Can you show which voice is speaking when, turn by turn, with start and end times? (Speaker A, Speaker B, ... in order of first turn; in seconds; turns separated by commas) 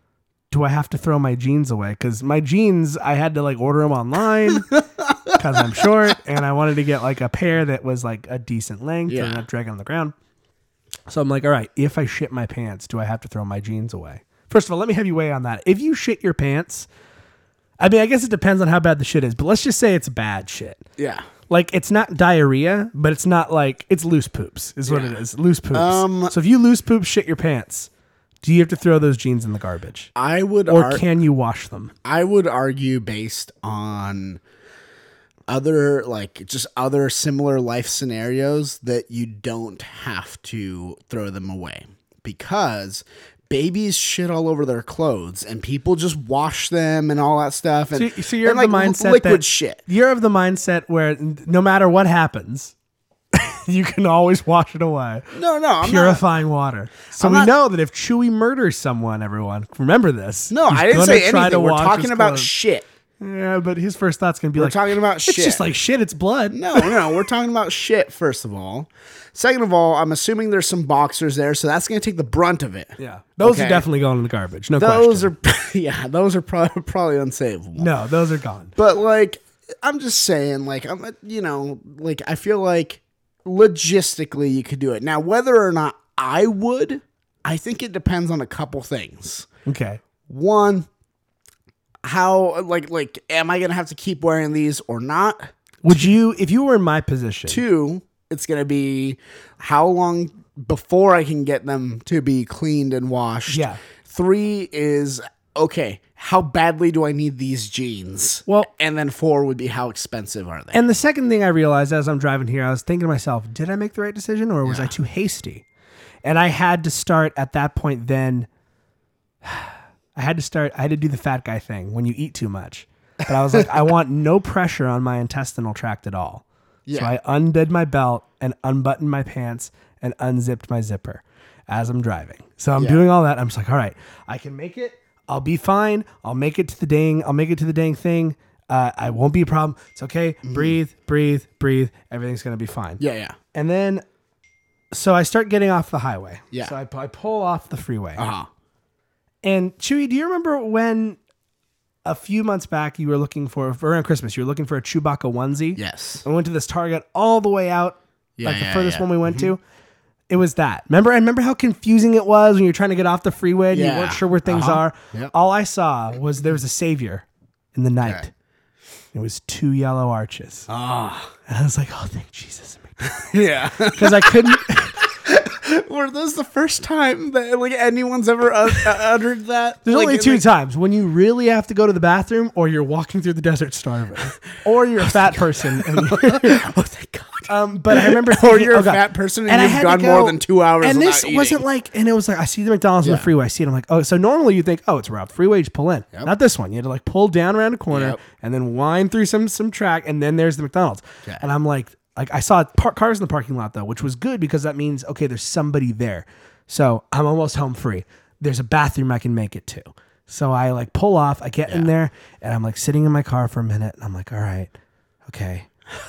Speaker A: 0.5-4.7, Speaker A: 5.3-10.1, Speaker B: 9.1-9.4, Speaker A: 11.1-16.9, Speaker A: 17.8-20.8, Speaker B: 21.0-21.3, Speaker A: 21.5-27.9, Speaker B: 24.9-25.1, Speaker B: 25.7-26.3, Speaker A: 28.4-30.1, Speaker B: 30.2-31.0, Speaker A: 30.7-31.9, Speaker B: 32.0-34.4, Speaker B: 35.5-49.8, Speaker A: 47.9-52.7, Speaker A: 53.3-62.5, Speaker B: 55.3-56.2, Speaker B: 57.2-57.5, Speaker B: 60.5-62.9, Speaker A: 63.2-67.0, Speaker B: 64.6-65.6, Speaker B: 66.5-73.8, Speaker A: 73.0-75.3, Speaker B: 74.8-77.9, Speaker A: 77.8-78.8, Speaker B: 78.8-89.5, Speaker A: 89.7-90.0, Speaker B: 90.3-90.9, Speaker B: 92.0-95.5, Speaker A: 95.8-97.6, Speaker B: 97.5-110.8, Speaker A: 103.5-103.8, Speaker A: 110.7-115.6, Speaker B: 114.7-114.9, Speaker A: 116.2-118.5, Speaker A: 119.4-126.4, Speaker B: 126.9-127.1, Speaker A: 127.0-143.0, Speaker B: 132.8-133.0, Speaker B: 140.4-140.8, Speaker B: 143.0-143.4, Speaker A: 143.5-144.1, Speaker A: 144.9-148.3, Speaker B: 148.2-148.5, Speaker A: 149.4-151.2, Speaker A: 152.1-159.6, Speaker B: 155.8-156.2, Speaker B: 158.4-159.5, Speaker A: 160.3-168.3, Speaker B: 163.7-165.3, Speaker A: 169.1-170.7, Speaker B: 170.7-171.3, Speaker A: 171.5-175.0, Speaker B: 173.3-174.6, Speaker B: 175.2-180.5, Speaker A: 179.8-186.7, Speaker B: 186.0-191.6, Speaker A: 187.5-214.7, Speaker B: 193.0-193.3, Speaker B: 197.9-198.2, Speaker A: 215.3-215.7